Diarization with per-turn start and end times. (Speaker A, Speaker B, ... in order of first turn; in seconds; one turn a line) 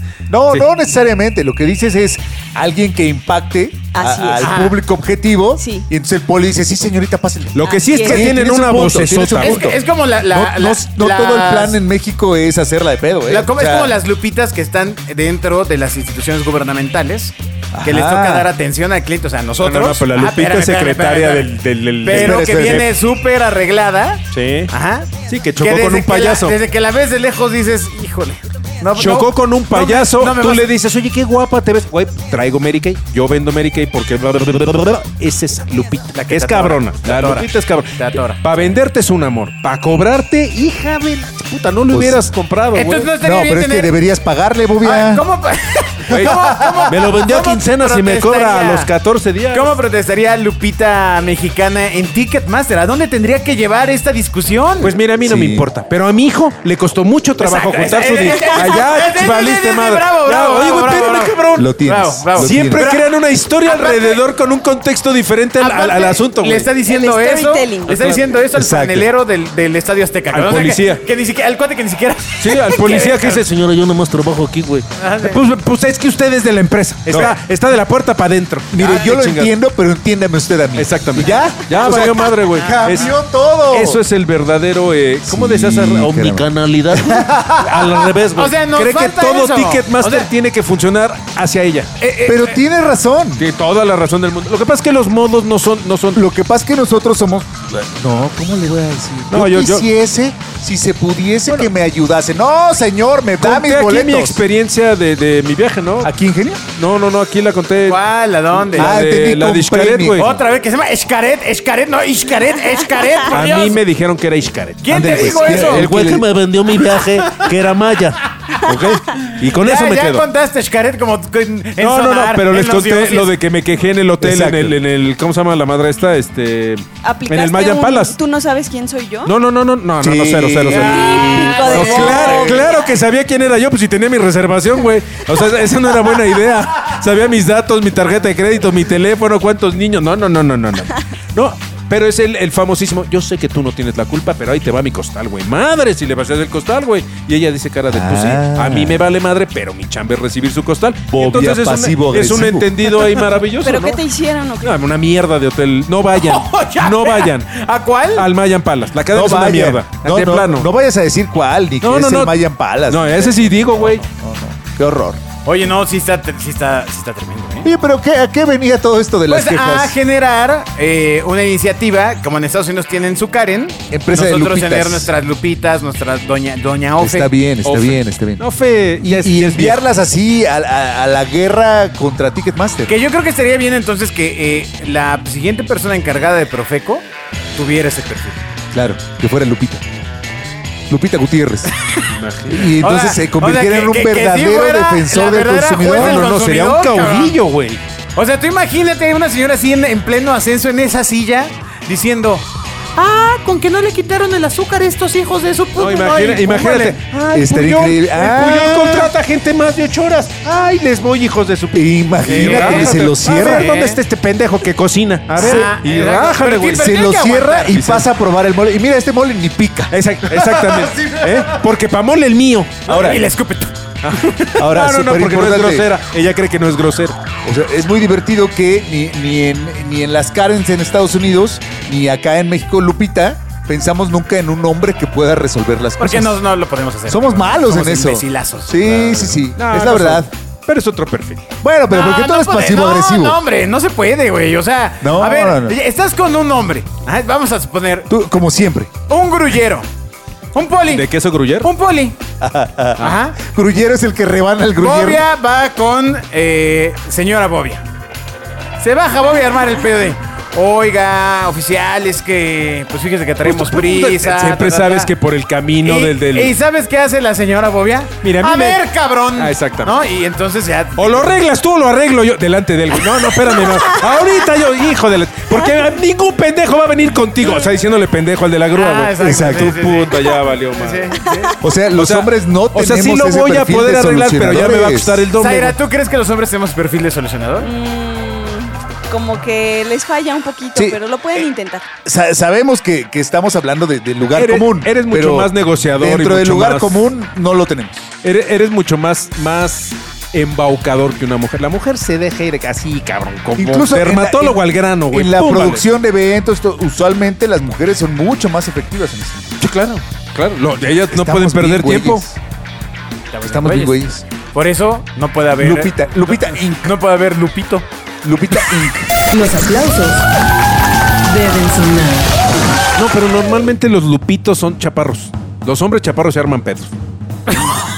Speaker A: 0.3-14.0
Speaker B: 3.9-4.6
Speaker C: 4.4-4.8
Speaker B: 5.6-5.9
Speaker D: 7.5-9.7
Speaker B: 7.7-8.3
Speaker C: 9.4-11.8
Speaker C: 13.3-30.7
Speaker A: 17.7-18.5
Speaker D: 19.6-22.9
Speaker A: 22.1-22.9
Speaker D: 24.3-24.7
Speaker D: 25.3-26.6
Speaker D: 28.9-43.1
Speaker C: 36.1-38.4
Speaker A: 41.9-42.2
Speaker C: 42.7-43.9
Speaker A: 43.2-45.2
Speaker C: 44.8-48.9
Speaker D: 46.1-49.8
Speaker A: 46.2-46.9
Speaker C: 49.5-55.0
Speaker D: 54.8-61.7
Speaker A: 55.2-55.7
Speaker C: 57.4-63.1
Speaker A: 61.5-62.9
Speaker D: 62.3-66.7
Speaker C: 63.6-64.2
Speaker C: 65.6-73.4
Speaker B: 66.8-68.2
Speaker D: 67.9-68.2
Speaker A: 68.5-69.1
Speaker D: 70.3-71.0
Speaker D: 72.4-79.5
Speaker C: 75.0-75.4
Speaker A: 77.1-77.4
Speaker A: 78.7-84.0
Speaker D: 80.8-83.2
Speaker D: 83.7-91.9
Speaker A: 85.3-87.5
Speaker C: 87.1-87.6
Speaker C: 88.3-90.3
Speaker C: 92.0-92.6
Speaker A: 92.2-93.5
Speaker D: 93.4-96.2
Speaker A: 96.1-104.4
Speaker D: 99.3-99.9
Speaker D: 103.4-106.1
Speaker A: 106.0-106.6
Speaker D: 106.8-110.4
Speaker C: 107.8-109.0
Speaker A: 108.7-110.2
Speaker C: 110.2-113.8
Speaker D: 113.3-120.3
Speaker C: 114.8-115.9
Speaker A: 114.9-116.3
Speaker C: 119.4-123.3
Speaker D: 121.8-128.2
Speaker A: 124.2-124.8
Speaker B: 127.0-129.3
Speaker D: 129.2-154.0
Speaker A: 130.0-132.8
Speaker B: 130.7-132.7
Speaker C: 130.8-132.7
Speaker A: 147.9-149.1
Speaker A: 151.1-152.9
Speaker B: 153.6-154.8
Speaker D: 154.6-157.6
Speaker C: 156.1-158.3
Speaker D: 158.1-160.7
Speaker A: 159.1-165.2
Speaker D: 161.8-164.0
Speaker C: 165.4-167.7
Speaker A: 167.6-170.0
Speaker C: 169.3-177.3
Speaker A: 173.9-175.1
Speaker A: 177.0-178.4
Speaker D: 177.6-179.8
Speaker A: 179.0-182.9
Speaker C: 182.9-187.0
Speaker C: 187.6-188.4
Speaker A: 188.7-189.8
Speaker A: 190.9-191.7
Speaker D: 192.1-192.8
Speaker A: 192.5-196.3
Speaker C: 192.8-197.4
Speaker D: 195.8-197.8
Speaker C: 198.2-207.0
Speaker D: 205.8-217.0
Speaker A: 207.3-209.1
Speaker A: 211.7-213.7
Speaker C: 212.3-214.0
Speaker C: 215.4-217.8
Speaker A: 215.4-215.7
Speaker A: 216.8-219.9
Speaker D: 217.7-218.1
Speaker D: 219.9-223.2
Speaker C: 220.5-221.3
Speaker A: 222.9-223.2
Speaker C: 222.9-223.8
Speaker D: 224.0-227.2
Speaker A: 224.6-225.9
Speaker A: 227.4-236.4
Speaker C: 236.0-239.4
Speaker A: 237.1-240.3
Speaker D: 239.6-241.5
Speaker A: 241.6-243.4
Speaker C: 241.9-248.1
Speaker A: 245.0-245.8
Speaker A: 248.1-248.9
Speaker C: 249.1-249.9
Speaker C: 250.5-251.1
Speaker D: 250.9-251.7
Speaker C: 251.6-252.2
Speaker A: 252.4-255.2
Speaker C: 253.0-253.4
Speaker C: 254.8-257.8
Speaker C: 258.8-265.1
Speaker D: 263.4-266.6
Speaker C: 265.8-271.3
Speaker D: 268.2-268.8
Speaker D: 269.4-269.9
Speaker D: 271.0-281.2
Speaker C: 278.7-281.6
Speaker A: 279.2-279.8
Speaker B: 281.2-281.5
Speaker A: 281.6-285.2
Speaker D: 281.9-285.8
Speaker C: 285.4-287.7
Speaker B: 287.6-291.9
Speaker A: 292.1-298.0
Speaker D: 294.3-297.0
Speaker D: 298.2-305.9
Speaker A: 303.6-304.6
Speaker A: 305.1-309.6
Speaker D: 309.6-312.3
Speaker A: 311.1-312.4
Speaker C: 313.3-317.9
Speaker A: 313.4-314.2
Speaker A: 315.6-317.0
Speaker A: 318.2-319.1
Speaker E: 319.3-320.3
Speaker E: 321.2-322.4
Speaker D: 323.0-326.9
Speaker C: 327.5-327.8